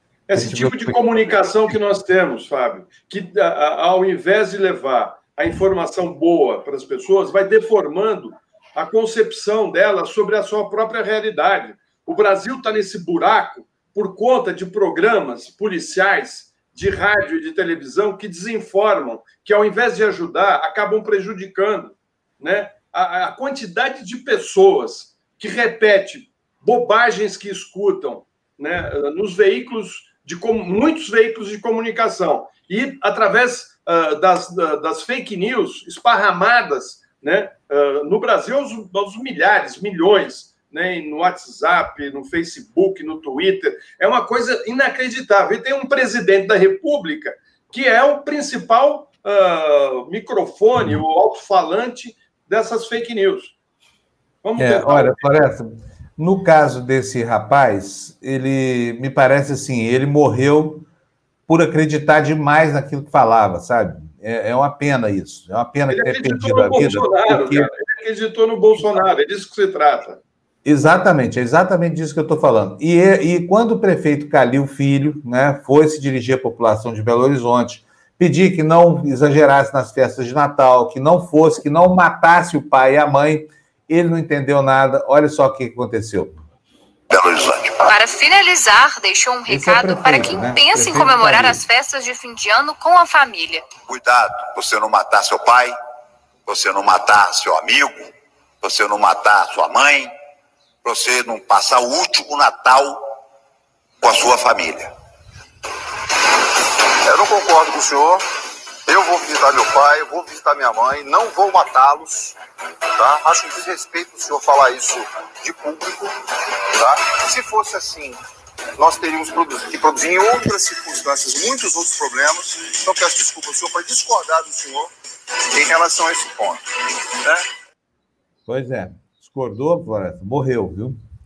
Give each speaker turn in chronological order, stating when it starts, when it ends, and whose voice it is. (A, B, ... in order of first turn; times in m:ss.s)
0:00.3-0:53.5 A
0:00.3-0:01.4 B
0:54.4-0:55.3 A
0:54.6-1:00.9 B
1:01.5-1:07.7 B
1:05.9-1:10.2 A
1:10.6-1:26.4 B
1:27.1-1:27.9 C
1:27.8-1:33.7 D
1:29.5-1:31.6 B
1:33.8-1:35.7 C
1:36.4-1:38.1 C
1:38.6-1:40.1 C
1:40.8-1:43.0 C
1:44.0-1:44.9 C
1:47.1-1:48.2 E
1:48.9-1:52.3 E
1:53.0-1:56.1 E
1:56.8-1:58.2 E
1:58.8-2:04.9 E
2:05.5-2:07.4 E
2:08.5-2:11.0 B